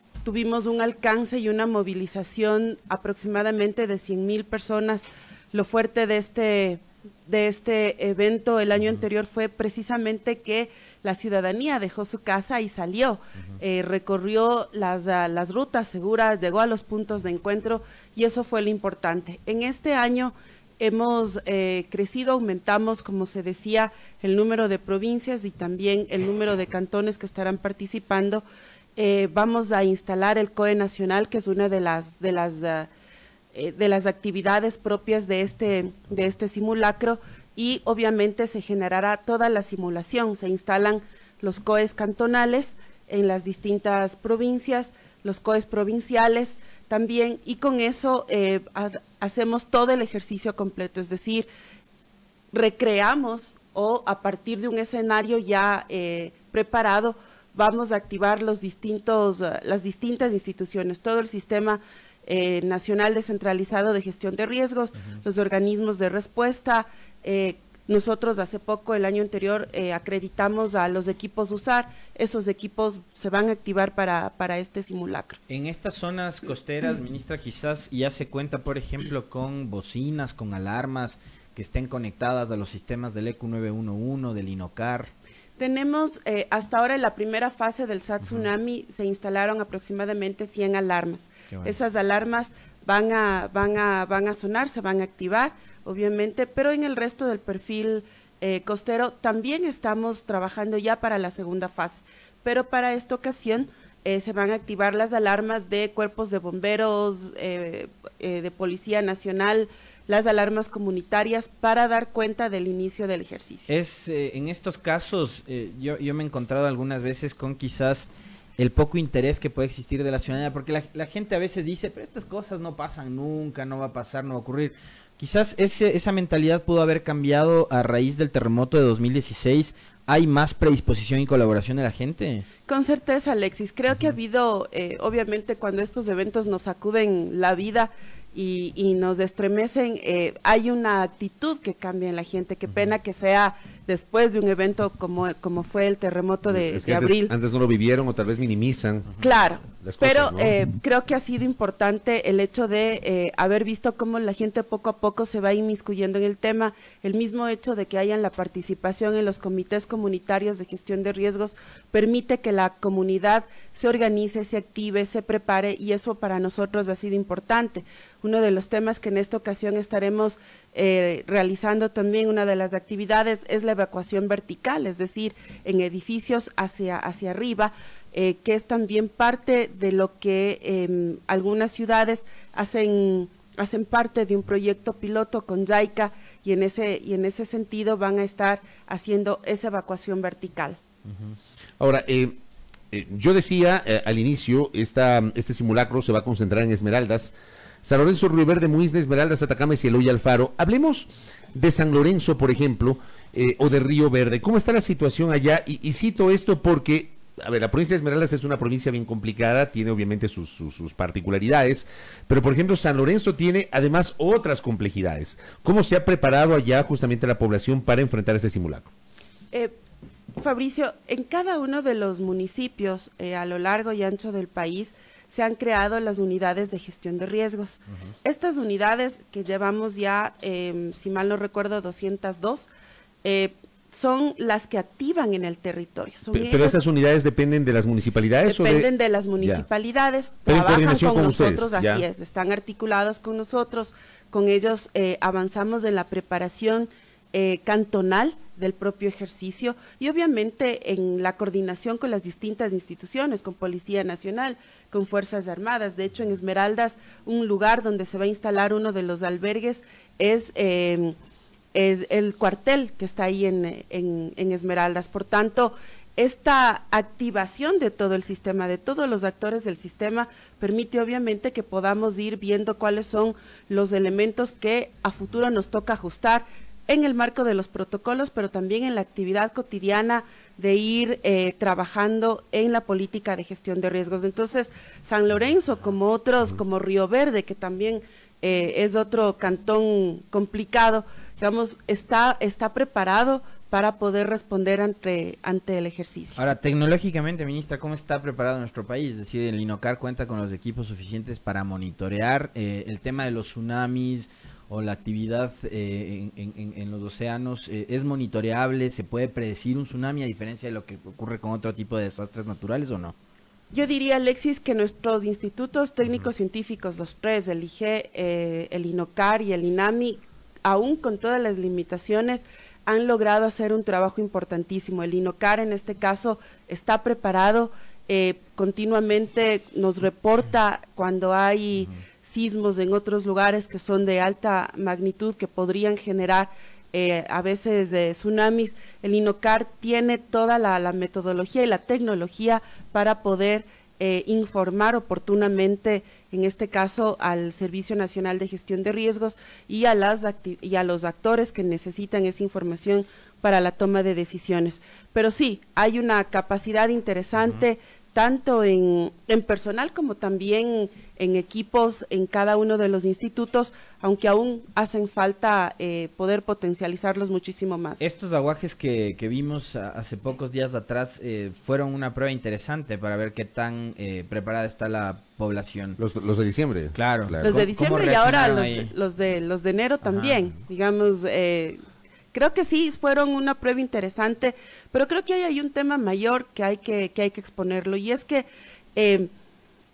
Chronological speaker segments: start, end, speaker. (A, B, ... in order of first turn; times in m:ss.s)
0:00.2-0:28.4 A
0:29.0-0:32.9 A
0:33.5-0:51.5 A
0:52.5-1:15.4 A
1:15.5-1:25.1 B
1:25.6-1:53.7 A
1:53.7-2:12.5 B
2:12.7-2:27.3 A
2:26.5-2:29.1 C
2:29.2-3:10.8 A
2:29.8-2:30.6 C
3:11.8-3:12.4 C
3:12.9-3:17.3 C
3:17.8-3:38.9 C
3:40.4-3:52.7 A
3:53.2-3:56.8 A
3:56.3-3:59.7 C
3:58.5-4:21.2 A
4:00.5-4:02.1 C
4:21.7-4:56.4 A
4:56.4-5:13.2 B
5:13.7-6:08.0 A
6:08.0-6:16.0 B
6:16.0-6:17.6 C
6:16.9-6:18.9 B
6:17.4-6:21.8 A
6:22.3-6:29.3 A